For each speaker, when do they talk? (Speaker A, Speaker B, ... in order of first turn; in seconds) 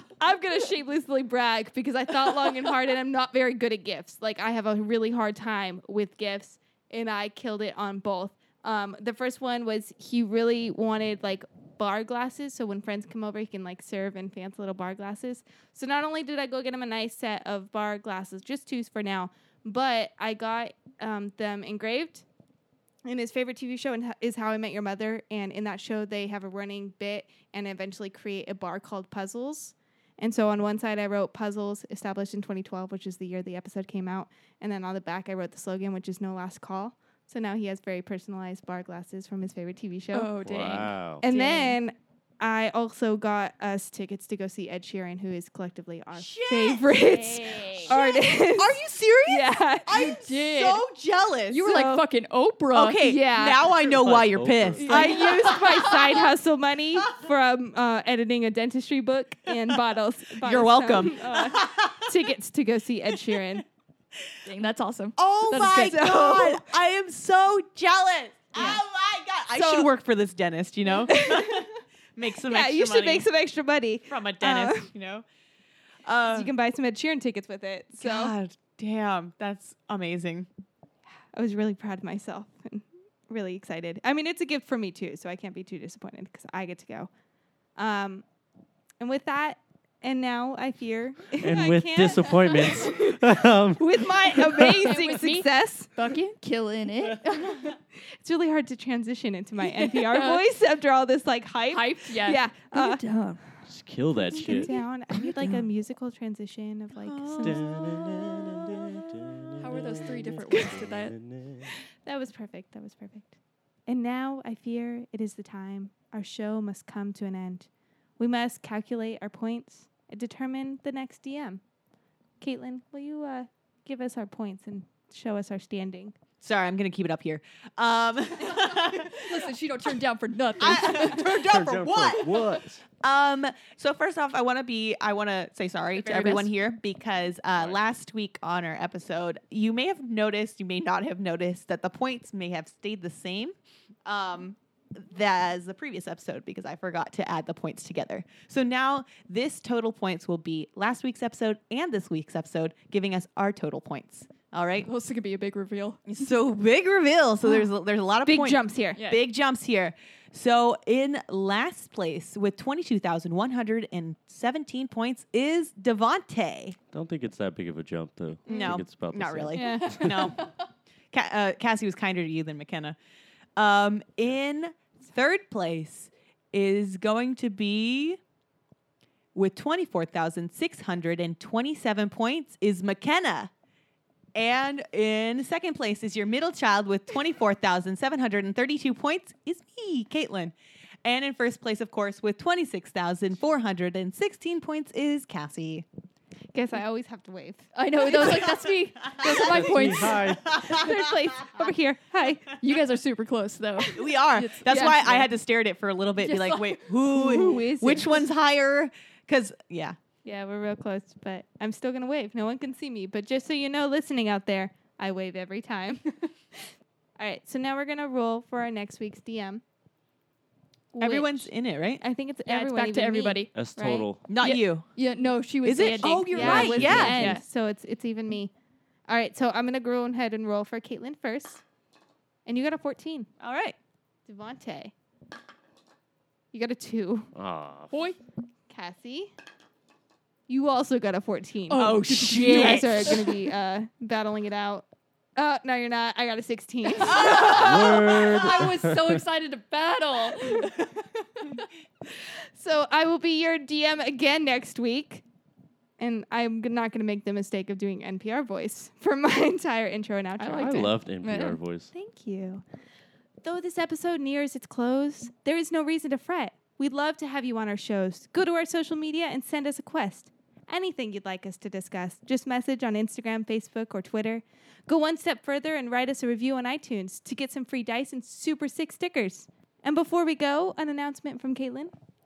Speaker A: 0.2-22.2, 23.1-40.3, 41.2-50.4, 51.6-52.0, 53.0-53.6, 54.8-63.6, 65.5-66.6, 68.6-68.8, 69.5-69.9, 71.0-71.7, 72.5-74.9, 76.3-78.3, 81.3-87.1, 87.8-88.2, 89.0-93.2, 93.8-96.0, 98.2-103.0, 104.3-107.6, 112.0-113.4, 113.9-117.7, 118.2-121.6, 122.4-126.2, 158.3-159.0, 169.5-170.2, 196.5-198.5, 200.5-202.5, 207.1-208.2, 210.2-216.2, 217.2-219.6, 220.9-224.1, 226.3-228.5, 229.1-231.6, 232.5-233.3, 234.3-234.9, 236.5-237.3, 238.7-239.3, 240.5-244.8, 245.4-247.3, 252.6-255.2, 256.0-260.9, 261.9-262.6, 263.4-281.9
Speaker B: 40.1-41.8, 47.4-47.9, 49.9-50.8, 51.5-53.3, 54.9-55.4, 64.4-66.0, 94.8-97.8, 99.6-100.5, 101.7-103.4, 104.3-104.8, 109.6-111.2, 129.1-131.4, 135.9-136.5, 154.8-156.0, 159.0-159.2, 168.5-168.8, 169.5-170.6, 197.8-200.4, 202.6-205.3, 206.2-207.7, 222.5-223.5, 224.4-227.4, 237.9-238.2, 241.7-243.4, 247.0-250.9, 260.4-261.6
Speaker C: 40.4-41.2, 54.0-55.0, 91.4-94.8, 103.7-104.7, 107.4-111.7, 130.7-132.8, 166.9-170.3, 199.2-200.7, 223.5-224.2, 226.5-227.3, 237.3-237.9, 247.4-249.2, 260.5-261.9
Speaker D: 46.1-51.7, 52.7-56.3, 60.4-62.2, 65.2-73.2, 74.1-75.2, 76.0-76.5, 78.0-80.5, 107.0-108.7, 126.4-129.5, 130.6-143.6, 144.1-154.9, 156.1-166.8, 168.5-170.5, 171.1-173.0, 173.6-178.2, 179.3-183.5, 184.3-195.8, 199.1-201.1, 203.9-210.0, 221.0-222.0, 224.3-224.9, 225.6-227.4, 233.4-233.8, 241.7-243.2, 247.1-248.1